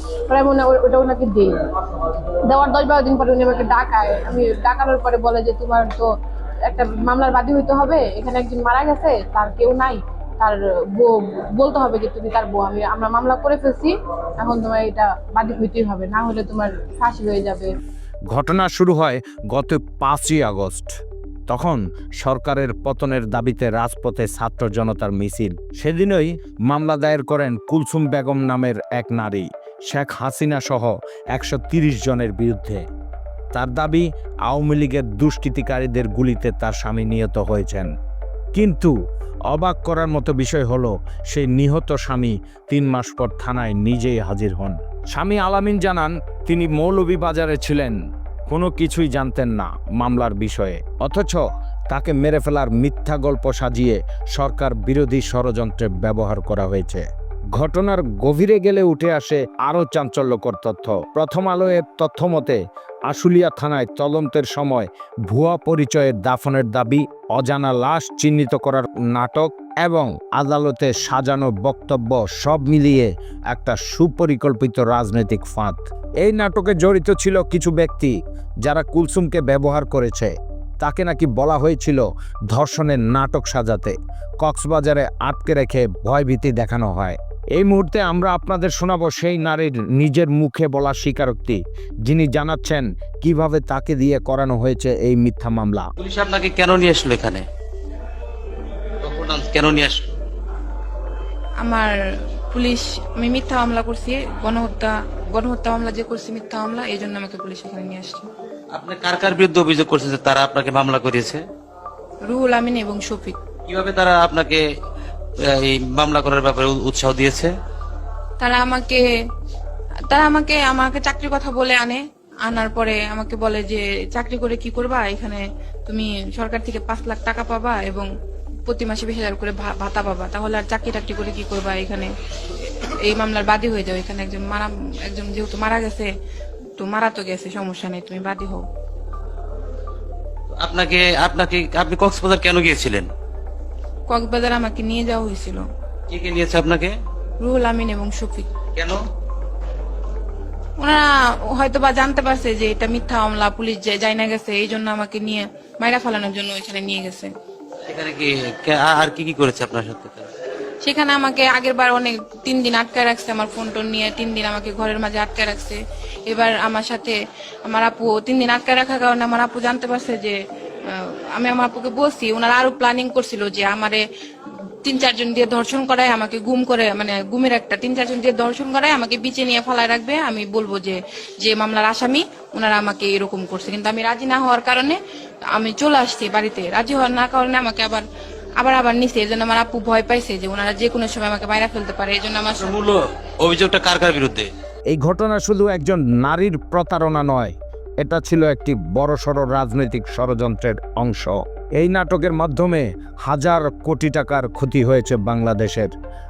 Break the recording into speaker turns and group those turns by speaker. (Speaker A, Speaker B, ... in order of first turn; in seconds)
Speaker A: 0.3-6.1, 6.7-17.7
Speaker B: 18.3-20.9, 21.5-32.8, 33.5-37.9, 38.5-38.9, 39.5-48.0, 48.5-62.6, 63.1-95.9, 194.9-205.9
Speaker C: 96.0-97.4, 99.0-100.0, 108.7-111.4, 113.7-114.6, 115.4-117.5, 140.6-143.1, 146.1-147.0, 157.9-160.3, 192.6-194.5
Speaker D: 101.6-101.9, 102.5-108.3, 112.3-113.4, 118.4-119.0, 120.1-128.1, 128.7-136.1, 136.8-138.7, 144.1-145.7, 147.4-148.5, 150.8-157.3, 160.8-185.0, 185.5-188.1, 188.6-192.8